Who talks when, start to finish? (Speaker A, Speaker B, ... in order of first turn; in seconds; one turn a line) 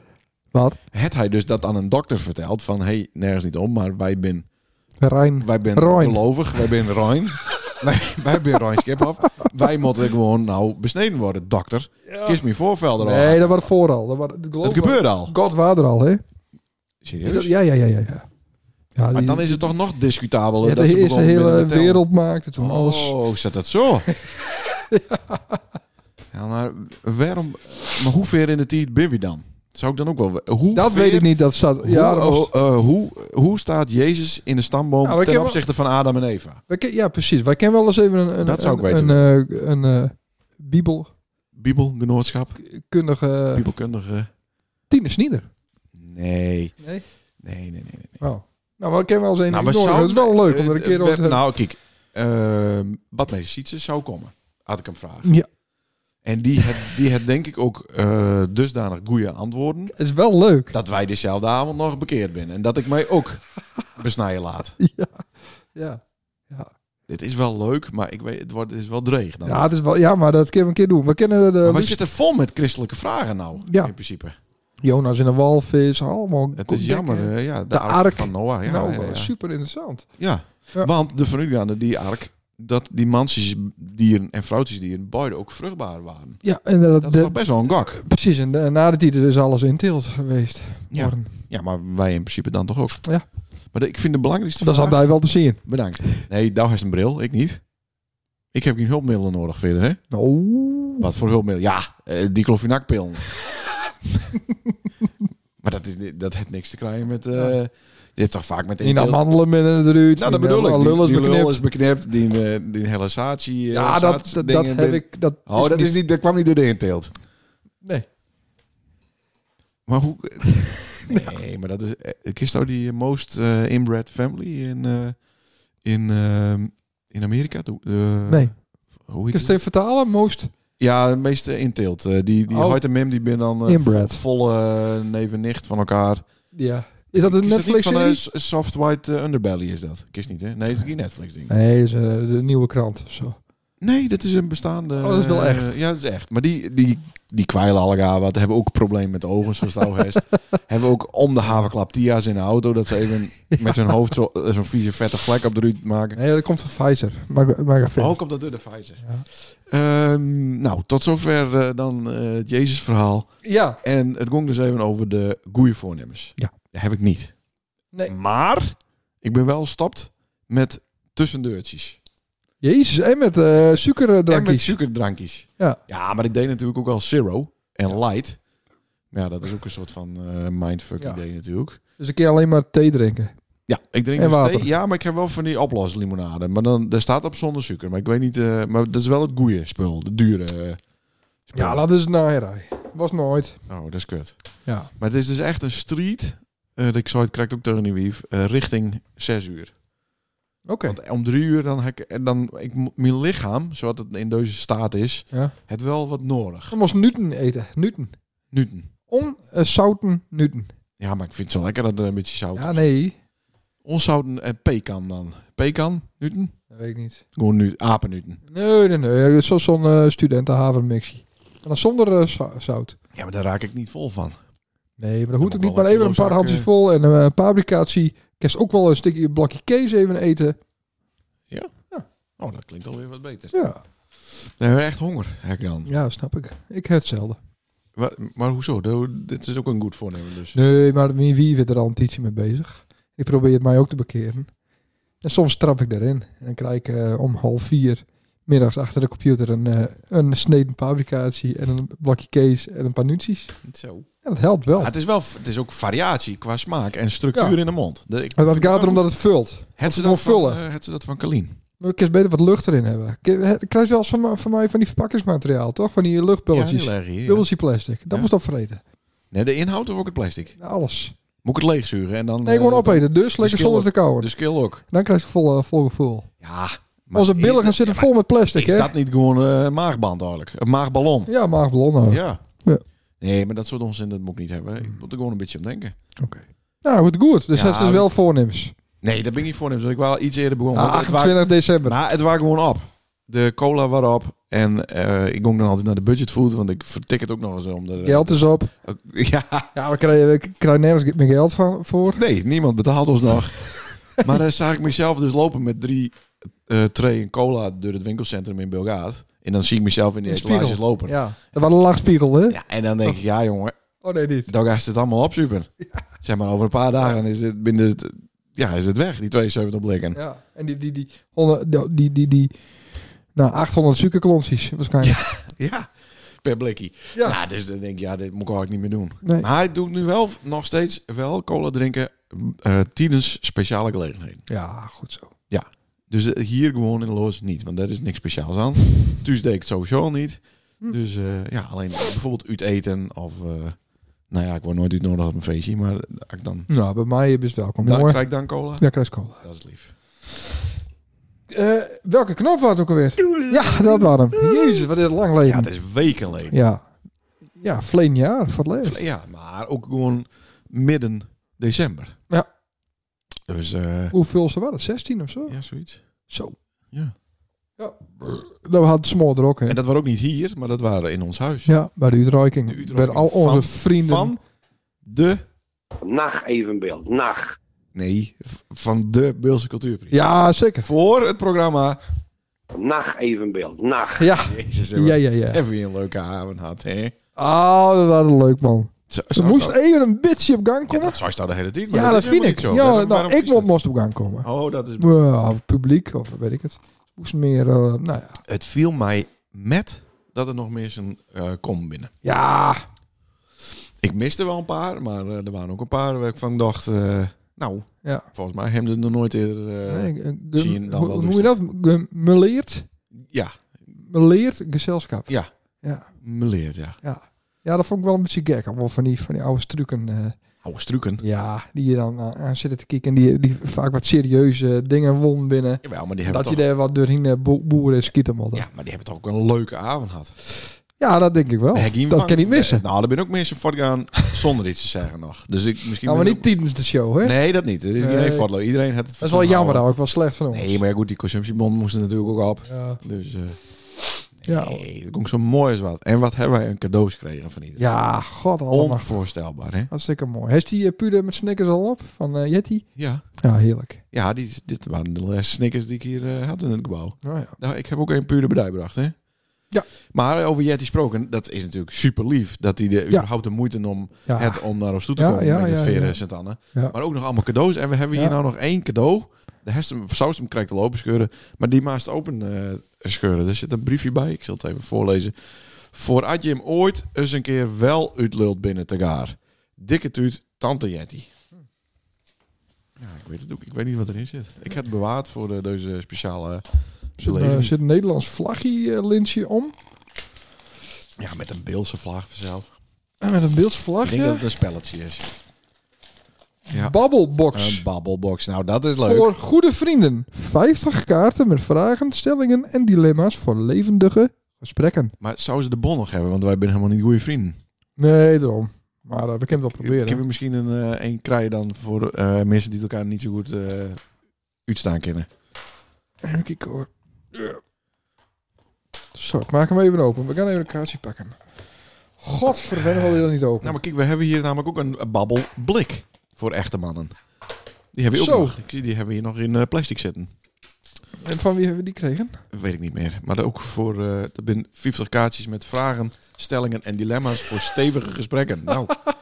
Speaker A: 0.5-0.8
Speaker B: 0.9-4.5
Speaker A: 5.0-6.7
Speaker B: 5.4-13.7
Speaker A: 12.1-12.4
Speaker A: 13.0-16.2
Speaker B: 14.6-15.3
Speaker B: 17.0-17.5
Speaker A: 17.2-18.2
Speaker A: 18.9-19.7
Speaker B: 19.1-22.0
Speaker A: 20.6-23.1
Speaker B: 22.6-24.1
Speaker A: 24.1-25.6
Speaker B: 26.3-31.3
Speaker A: 30.7-32.5
Speaker B: 31.8-36.6
Speaker A: 35.0-35.6
Speaker A: 36.7-41.1
Speaker B: 38.4-39.2
Speaker B: 41.5-42.6
Speaker A: 42.6-43.7
Speaker B: 43.5-44.3
Speaker A: 44.9-45.5
Speaker B: 45.9-46.7
Speaker B: 47.4-48.2
Speaker A: 48.2-51.4
Speaker B: 49.5-55.3
Speaker B: 56.2-59.9
Speaker A: 60.0-60.7
Speaker B: 60.7-63.4
Speaker B: 63.9-64.8
Speaker A: 64.8-66.7
Speaker B: 67.1-69.6
Speaker A: 69.5-72.0
Speaker B: 71.6-74.3
Speaker A: 73.6-73.9
Speaker A: 74.8-80.1
Speaker B: 76.5-79.3
Speaker B: 80.2-86.4
Speaker A: 86.4-91.3
Speaker B: 87.0-88.0
Speaker B: 90.9-93.0
Speaker B: 93.7-95.0
Speaker A: 94.6-96.2
Speaker B: 95.6-97.6
Speaker B: 98.5-100.0
Speaker A: 100.1-101.1
Speaker B: 101.0-103.3
Speaker B: 105.6-109.2
Speaker A: 108.8-111.6
Speaker B: 110.2-117.1
Speaker A: 113.7-116.0
Speaker B: 119.9-125.2
Speaker A: 120.6-121.3
Speaker B: 125.8-128.5
Speaker A: 128.3-128.5
Speaker B: 129.1-129.6
Speaker A: 129.3-130.5
Speaker B: 130.8-136.2
Speaker A: 132.5-132.8
Speaker A: 133.7-134.2
Speaker A: 136.5-138.2
Speaker B: 137.1-141.5
Speaker A: 141.5-143.4
Speaker B: 143.8-156.2
Speaker A: 145.0-145.7
Speaker A: 153.5-154.1
Speaker A: 156.2-158.2
Speaker B: 158.0-163.3
Speaker A: 163.4-163.8
Speaker B: 163.8-167.3
Speaker B: 168.1-172.0
Speaker A: 172.6-174.8
Speaker B: 174.3-178.4
Speaker B: 179.1-181.8
Speaker A: 182.0-183.3
Speaker B: 183.7-190.8
Speaker A: 184.2-184.7
Speaker B: 191.5-191.8
Speaker A: 191.6-193.6
Speaker B: 193.7-194.4
Speaker B: 195.0-199.7
Speaker A: 200.7-200.9
Speaker B: 200.8-206.8
Speaker A: 206.7-208.1
Speaker B: 208.5-208.9
Speaker A: 209.1-210.7
Speaker B: 211.0-212.9
Speaker A: 212.6-213.1
Speaker B: 213.8-216.5
Speaker A: 216.7-217.2
Speaker B: 217.3-218.4
Speaker A: 218.5-223.0
Speaker B: 223.1-224.4
Speaker A: 225.0-230.6
Speaker B: 225.4-226.7
Speaker B: 232.4-233.5
Speaker A: 233.5-233.8
Speaker B: 234.4-235.9
Speaker A: 235.9-237.4
Speaker B: 237.9-240.6
Speaker A: 240.5-244.5
Speaker A: 245.2-253.6
Speaker B: 253.6-254.1
Speaker A: 254.2-254.9
Speaker B: 254.8-259.0
Speaker A: 258.4-260.6
Speaker B: 259.8-261.6
Speaker A: 261.8-268.8
Speaker B: 266.5-267.4
Speaker B: 269.3-270.6
Speaker A: 270.6-271.1
Speaker B: 271.4-274.8
Speaker A: 272.4-274.3
Speaker A: 274.9-276.3
Speaker B: 276.4-281.3
Speaker A: 277.1-278.9
Speaker A: 281.3-282.8
Speaker B: 282.1-282.4
Speaker B: 283.2-285.9
Speaker A: 286.2-288.7
Speaker B: 287.5-288.1
Speaker B: 289.0-299.7
Speaker A: 290.7-291.9
Speaker A: 298.0-298.7
Speaker A: 299.7-302.2
Speaker B: 302.1-311.2
Speaker A: 310.2-313.1
Speaker B: 312.5-313.8
Speaker A: 314.0-314.5
Speaker B: 314.5-315.7
Speaker B: 316.2-320.2
Speaker A: 320.1-322.5
Speaker A: 323.4-325.2
Speaker B: 325.0-325.9
Speaker B: 326.4-334.4
Speaker A: 334.5-335.3
Speaker B: 335.5-343.8
Speaker B: 344.3-346.7
Speaker A: 346.7-348.2
Speaker B: 347.8-348.8
Speaker A: 348.8-349.4
Speaker B: 349.4-349.9
Speaker A: 351.5-355.7
Speaker B: 355.4-356.6
Speaker A: 356.5-356.8
Speaker A: 357.6-359.0
Speaker B: 358.8-362.1
Speaker B: 363.5-364.1
Speaker A: 364.1-365.6
Speaker B: 365.5-366.0
Speaker A: 366.3-366.5
Speaker A: 367.8-369.8
Speaker B: 369.7-371.7
Speaker A: 371.7-374.3
Speaker B: 372.6-374.4
Speaker B: 375.0-375.4
Speaker C: 376.0-377.6
Speaker B: 377.9-380.2
Speaker A: 380.1-380.9
Speaker B: 380.8-382.0
Speaker C: 382.7-384.3
Speaker A: 384.2-385.6
Speaker B: 384.3-387.1
Speaker A: 387.4-391.2
Speaker B: 389.1-389.8
Speaker B: 390.9-393.7
Speaker A: 391.9-394.5
Speaker B: 394.4-395.1
Speaker A: 395.0-398.4
Speaker B: 398.5-402.1
Speaker A: 402.2-402.8
Speaker B: 404.0-411.6
Speaker A: 409.9-412.9
Speaker B: 413.2-413.5
Speaker A: 414.1-415.3
Speaker B: 416.2-417.0
Speaker A: 417.0-420.4
Speaker B: 420.6-421.2
Speaker A: 421.2-428.6
Speaker B: 425.8-426.6
Speaker B: 428.5-430.3
Speaker A: 431.0-432.8
Speaker B: 431.7-436.5
Speaker A: 436.0-437.4
Speaker B: 437.2-439.9
Speaker A: 438.0-438.5
Speaker A: 439.2-440.8
Speaker B: 440.5-443.6
Speaker A: 442.7-443.0
Speaker B: 444.4-447.9
Speaker A: 444.5-444.8
Speaker A: 447.8-449.2
Speaker B: 448.7-449.9
Speaker A: 449.9-452.9
Speaker B: 453.0-453.2
Speaker A: 453.4-454.0
Speaker B: 454.1-459.1
Speaker A: 457.2-457.6
Speaker B: 460.1-475.3
Speaker A: 464.3-464.6
Speaker A: 465.1-466.2
Speaker B: 475.9-481.3
Speaker B: 483.0-486.6
Speaker A: 487.2-489.7
Speaker B: 487.2-487.7
Speaker B: 491.2-492.7
Speaker A: 493.2-494.4
Speaker B: 494.0-495.3
Speaker A: 496.7-497.8
Speaker B: 497.5-499.3
Speaker A: 499.0-505.1
Speaker B: 505.2-507.6
Speaker A: 508.0-510.2
Speaker B: 509.7-514.0
Speaker B: 514.6-515.3
Speaker A: 516.2-517.6
Speaker A: 519.1-521.3
Speaker A: 522.2-523.8
Speaker B: 522.7-527.1
Speaker B: 527.9-530.3
Speaker A: 528.1-528.5
Speaker A: 531.2-532.4
Speaker B: 532.5-539.0